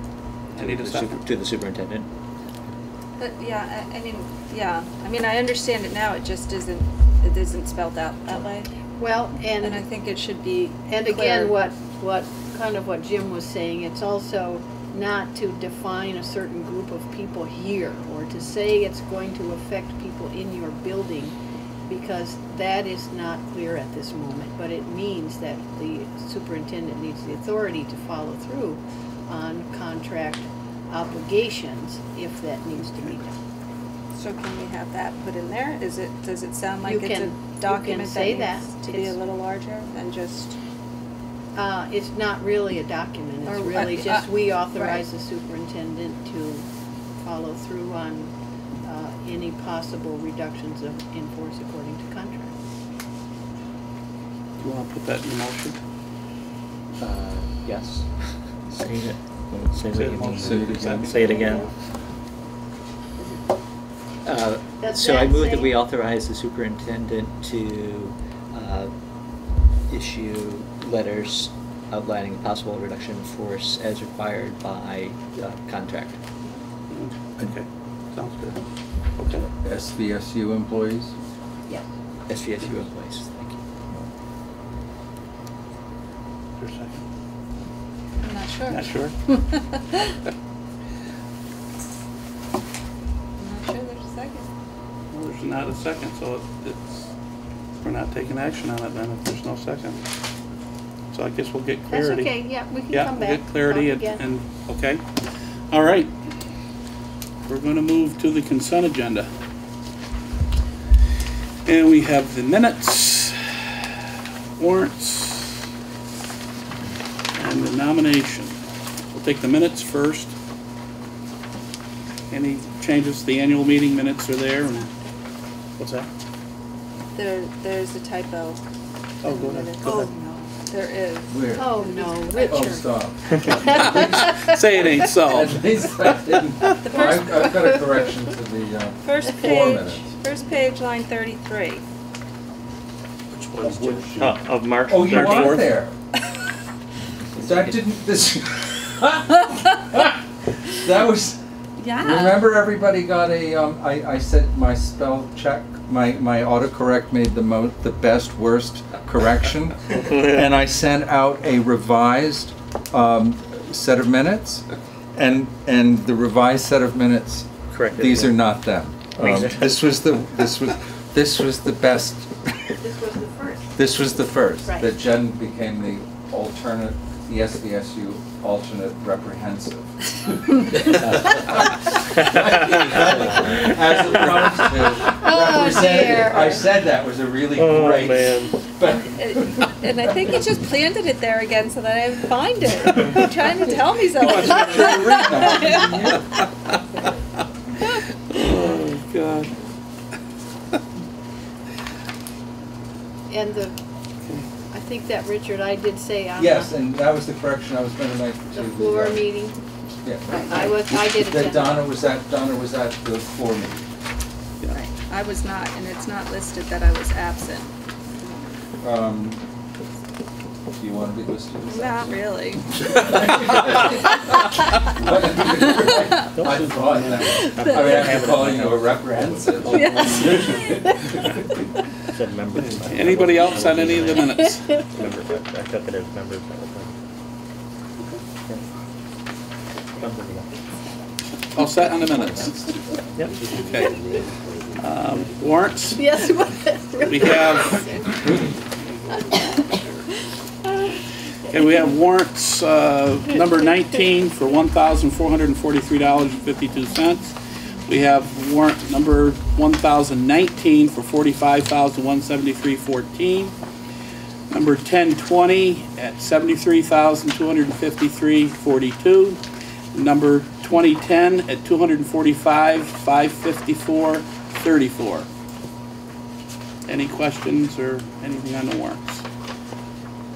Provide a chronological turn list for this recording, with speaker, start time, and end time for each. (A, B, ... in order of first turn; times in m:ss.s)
0:00.5-0:01.2 A
0:00.6-0:02.1 B
0:03.2-0:08.7 C
0:09.0-0:09.8 D
0:09.6-0:11.6 C
0:10.9-0:21.4 D
0:21.9-0:33.4 D
0:34.1-0:40.6 C
0:36.8-0:39.1 D
0:41.5-0:46.7 D
0:43.4-0:45.0 C
0:47.2-0:52.5 D
0:54.6-0:55.8 A
0:57.0-0:59.1 B
0:59.5-1:01.7 E
0:59.8-1:00.9 B
0:59.9-1:01.3 A
1:00.4-1:01.1 F
1:03.2-1:03.4 D
1:04.2-1:08.9 B
1:04.8-1:05.8 D
1:09.9-1:16.2 B
1:16.9-1:18.6 A
1:19.2-1:19.5 A
1:19.4-1:21.1 F
1:22.3-1:23.6 B
1:26.6-1:27.0 A
1:28.2-1:30.2 C
1:28.7-1:29.2 A
1:33.4-1:34.5 C
1:35.1-1:37.1 A
1:37.8-1:40.0 A
1:41.1-1:42.3 A
1:41.9-1:44.2 D
1:42.9-1:45.0 A
1:45.7-1:46.1 A
1:47.5-1:49.3 A
1:51.6-1:55.6 A
1:57.3-1:58.6 A
1:59.1-2:00.3 A
2:02.3-2:04.9 A
2:05.8-2:06.1 A
2:07.1-2:08.6 C
2:09.2-2:10.1 A
2:09.2-2:12.6 C
2:09.8-2:10.3 D
2:11.3-2:11.7 F
2:11.5-2:12.8 D
2:12.4-2:20.0 F
2:13.7-2:15.5 A
2:13.8-2:14.1 D
2:16.8-2:17.9 C
2:19.0-2:21.8 C
2:23.3-2:24.4 A
2:23.6-2:25.7 E
2:24.8-2:25.9 F
2:25.1-2:25.6 A
2:27.4-2:31.4 F
2:31.8-2:32.4 C
2:32.0-2:52.8 F
2:40.1-2:40.4 E
2:47.7-2:48.4 B
2:49.2-2:49.7 B
2:52.8-2:53.8 D
2:53.8-3:10.4 F
2:54.6-2:54.9 D
3:02.2-3:02.9 E
3:05.1-3:06.6 D
3:07.6-3:08.6 E
3:08.8-3:16.2 C
3:13.6-3:16.4 F
3:14.2-3:15.7 A
3:18.3-3:19.5 A
3:23.3-3:23.8 D
3:24.7-3:26.8 D
3:26.4-3:29.3 F
3:28.5-3:29.6 D
3:30.0-3:33.8 F
3:30.3-3:31.9 D
3:34.7-3:37.7 C
3:38.8-3:39.4 F
3:40.7-3:42.2 F
3:41.6-3:42.7 C
3:42.7-3:51.5 F
3:46.4-3:50.0 E
3:47.6-3:48.1 C
3:49.7-3:51.0 C
3:52.1-3:56.9 E
3:52.2-3:54.2 B
3:52.6-3:54.9 A
4:00.0-4:00.5 B
4:01.5-4:02.8 A
4:03.5-4:04.0 A
4:04.8-4:06.2 A
4:05.9-4:08.3 D
4:07.0-4:07.8 A
4:09.2-4:09.6 D
4:11.5-4:23.5 A
4:24.5-4:29.4 A
4:29.9-4:35.3 A
4:36.9-4:39.2 A